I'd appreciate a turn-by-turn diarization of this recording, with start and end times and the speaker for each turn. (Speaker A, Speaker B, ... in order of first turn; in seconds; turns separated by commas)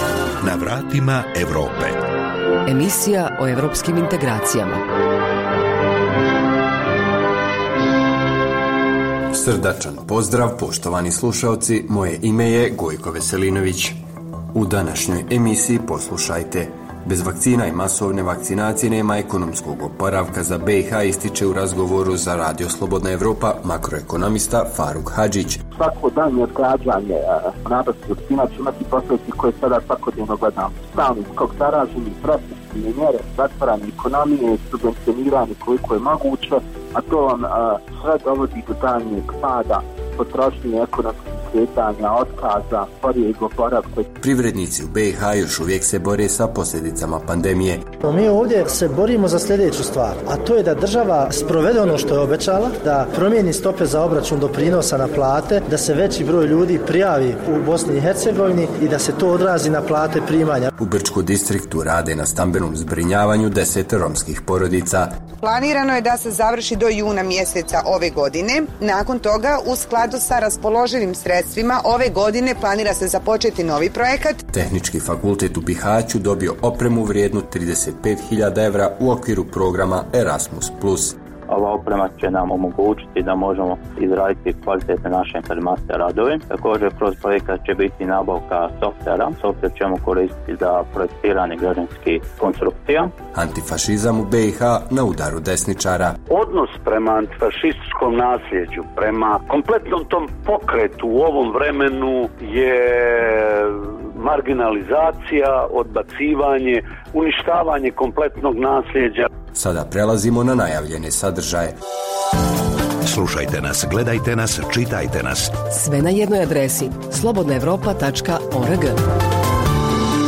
Speaker A: 0.4-2.0, Speaker B: 2.6-4.8, Speaker C: 9.3-14.0, Speaker C: 14.5-25.6, Speaker D: 25.7-44.1, Speaker C: 44.2-47.8, Speaker E: 48.0-60.7, Speaker C: 60.8-65.1, Speaker F: 65.4-74.4, Speaker C: 74.5-81.2, Speaker G: 81.5-93.1, Speaker C: 93.3-96.2, Speaker H: 96.3-109.3, Speaker C: 109.5-111.8, Speaker A: 113.0-115.6, Speaker B: 115.7-119.0